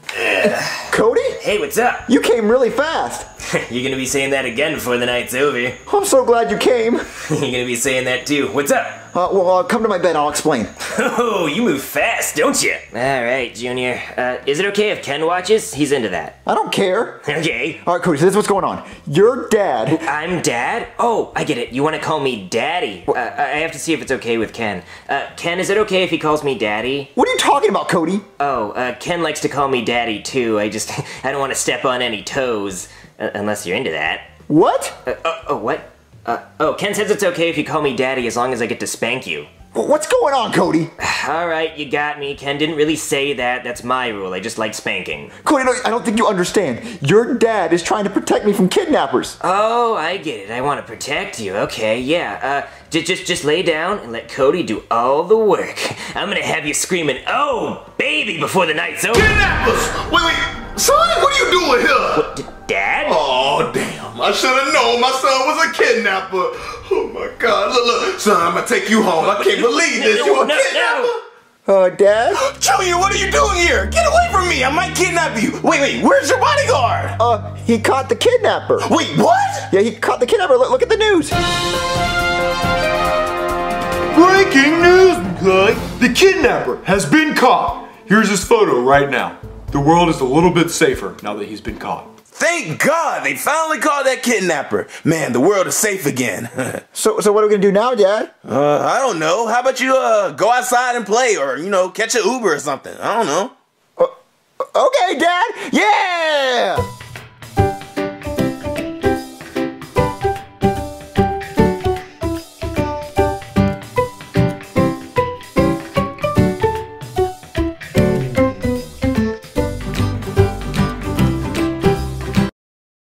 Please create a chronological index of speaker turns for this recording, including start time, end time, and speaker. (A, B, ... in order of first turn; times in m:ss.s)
0:00.2-0:00.8 A
0:00.4-0:01.4 B
0:01.4-0:02.1 A
0:02.1-0:03.3 B
0:03.4-0:05.8 A
0:05.9-0:07.1 B
0:07.2-0:09.0 A
0:09.1-0:10.7 B
0:10.8-0:16.4 A
0:16.5-0:17.2 B
0:17.2-0:17.8 A
0:17.8-0:20.0 B
0:19.9-0:27.1 A
0:27.2-0:28.2 B
0:28.4-0:34.3 A
0:34.5-0:35.0 B
0:35.1-0:39.5 A
0:39.7-0:40.9 B
0:41.0-0:45.3 A
0:45.4-0:49.4 B
0:49.4-0:59.3 A
0:59.1-1:02.3 C
1:02.2-1:03.2 A
1:03.0-1:11.2 C
1:09.3-1:11.1 A
1:11.7-1:12.4 B
1:12.3-1:17.2 C
1:17.2-1:18.9 B
1:18.8-1:19.7 C
1:19.7-1:21.4 B
1:24.1-1:32.1 D
1:32.3-1:36.8 C
1:37.0-1:38.3 B
1:38.4-1:43.5 C
1:44.7-1:46.9 B